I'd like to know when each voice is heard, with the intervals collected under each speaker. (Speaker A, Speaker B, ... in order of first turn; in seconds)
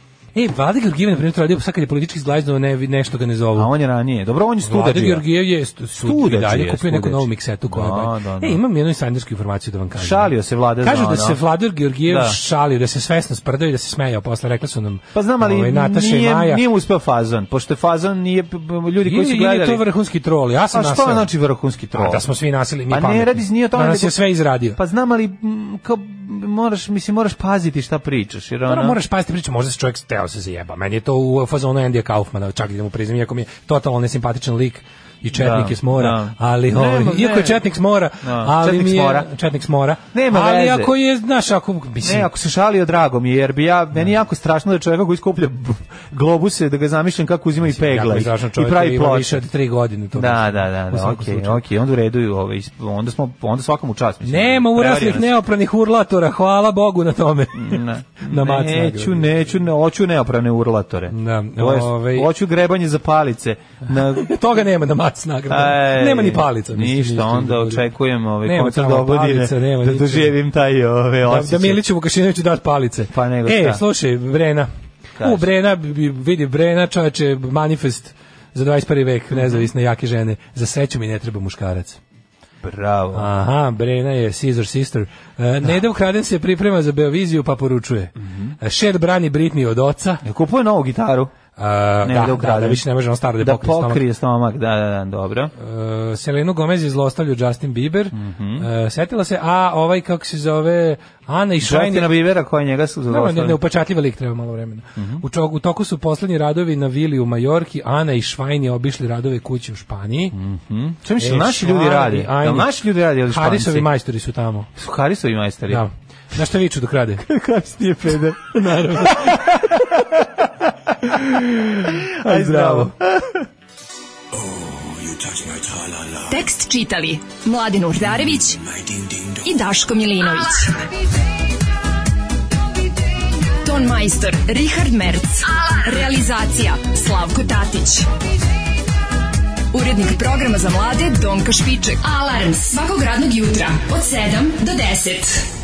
Speaker A: 0.3-3.7, 4.6-16.6, 19.0-21.3, 21.9-24.8, 28.6-42.3, 47.6-51.6, 54.2-59.3, 61.1-62.3, 63.9-67.9, 68.4-70.4, 71.2-74.7, 75.2-82.0, 83.1-90.2, 91.6-94.0, 95.6-102.1, 103.1-110.4, 111.2-112.7, 113.3-114.7, 115.7-117.2, 118.5-120.0, 121.0-122.9
Speaker B: 3.5-5.3, 5.9-8.6, 10.0-11.4, 12.1-12.4, 15.1-19.8, 20.7-22.3, 22.9-24.2, 24.8-29.0, 35.3-37.6, 38.2-39.3, 40.1-40.9, 42.0-49.4, 50.1-55.3, 57.5-64.3, 65.5-71.8, 73.1-73.8, 75.2-75.5, 79.3-79.7, 82.6-83.3, 88.2-88.5, 90.2-91.3, 92.0-92.8, 93.4-95.5, 98.1-98.7, 101.6-103.6, 105.0-105.2, 110.3-113.9, 114.8-115.8, 117.2-120.7, 121.9-123.5, 124.8-126.0
Speaker C: 126.3-128.7, 129.3-130.9, 133.4-138.1, 139.7-145.5